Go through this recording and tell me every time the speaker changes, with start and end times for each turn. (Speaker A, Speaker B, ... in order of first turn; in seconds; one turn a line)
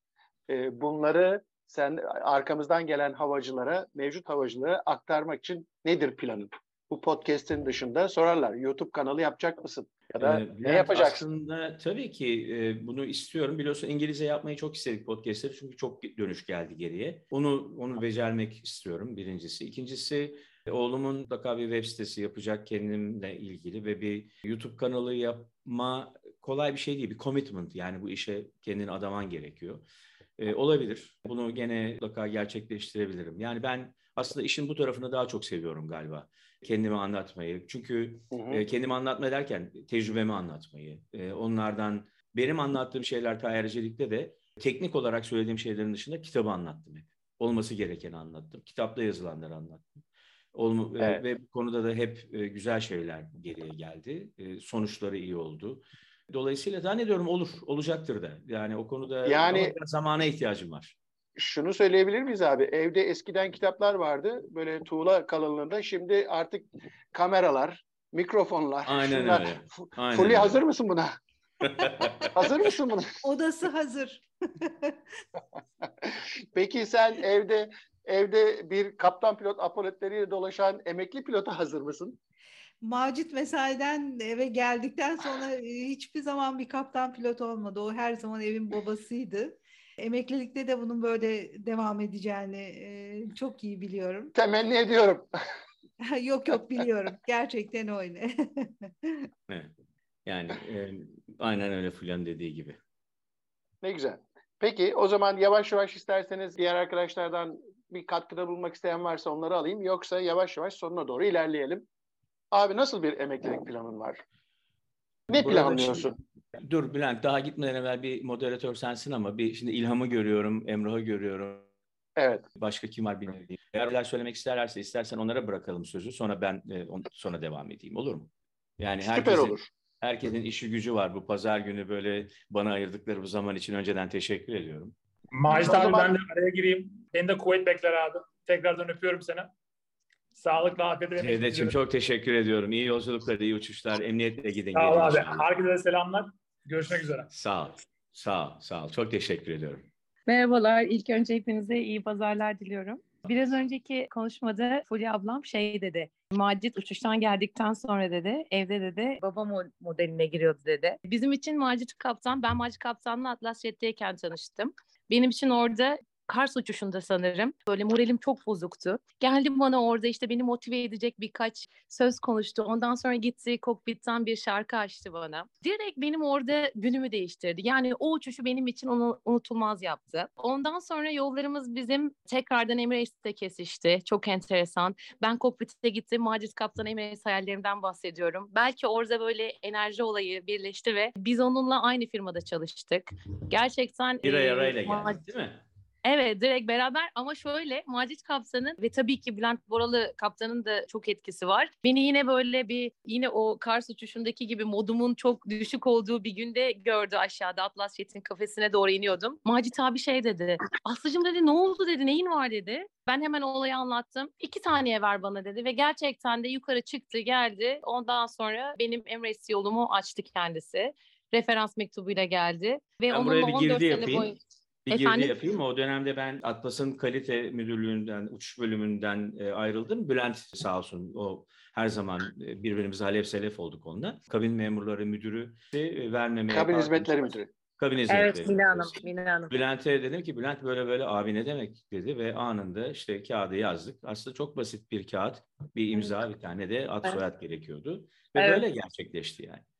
Speaker A: 0.5-11.2
Speaker B: 10.2-29.8
Speaker B: 30.4-49.9
Speaker A: 38.3-38.6
Speaker B: 50.5-61.0
Speaker A: 59.2-59.7
Speaker A: 61.4-71.2
Speaker B: 68.8-70.6
Speaker B: 71.6-72.3
Speaker A: 72.3-73.1
Speaker C: 73.2-75.0
Speaker A: 76.0-82.2
Speaker C: 82.8-94.3
Speaker A: 94.3-95.3
Speaker C: 96.0-99.2
Speaker B: 100.3-102.8
Speaker A: 103.8-111.9
Speaker A: 112.5-114.2
Speaker A: 115.3-116.1
Speaker B: 115.3-121.7
Speaker A: 122.2-122.5
Speaker B: 122.6-134.9
Speaker A: 129.0-129.7
Speaker D: 135.3-139.5
Speaker A: 135.5-136.2
Speaker D: 140.3-141.8
Speaker B: 141.2-145.5
Speaker D: 144.8-147.3
Speaker B: 147.3-149.9
Speaker E: 150.3-195.2
Speaker B: 194.2-195.6
Speaker E: 196.1-225.3
Speaker B: 223.1-224.3
Speaker B: 224.9-237.1
Speaker A: 236.5-237.5
Speaker B: 237.8-249.6
Speaker E: 238.1-239.5
Speaker E: 248.3-248.7